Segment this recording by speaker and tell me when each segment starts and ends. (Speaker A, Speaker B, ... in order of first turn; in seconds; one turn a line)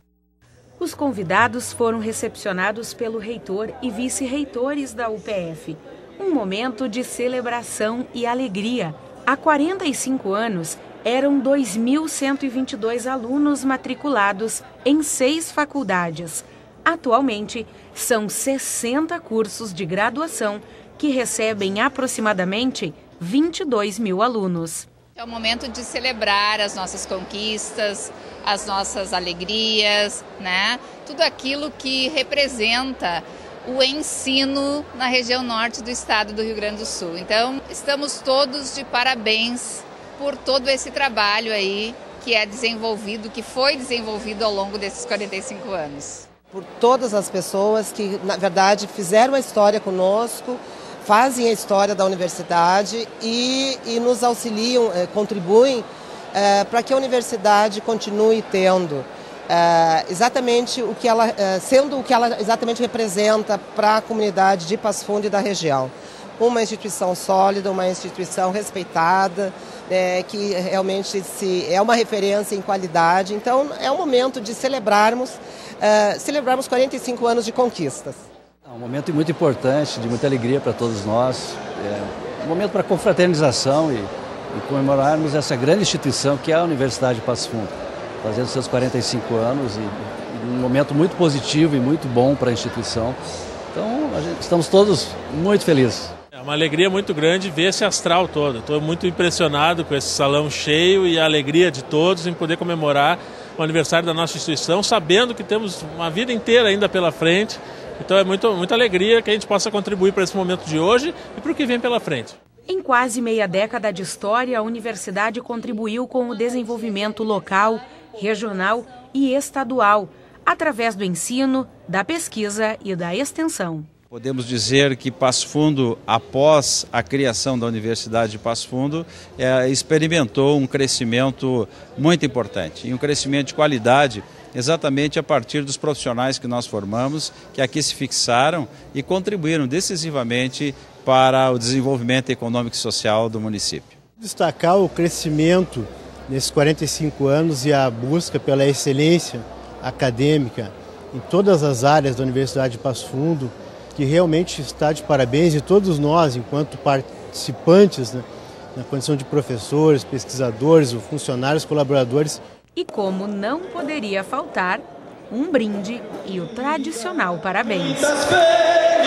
Speaker A: 0.8-24.9
Speaker B: 25.1-46.2
Speaker C: 46.5-78.2
Speaker D: 78.6-93.2
Speaker D: 93.7-96.1
Speaker E: 96.4-100.7
Speaker E: 101.2-112.3
Speaker A: 112.7-123.9
Speaker F: 124.1-143.9
Speaker G: 144.2-162.4
Speaker A: 162.8-168.1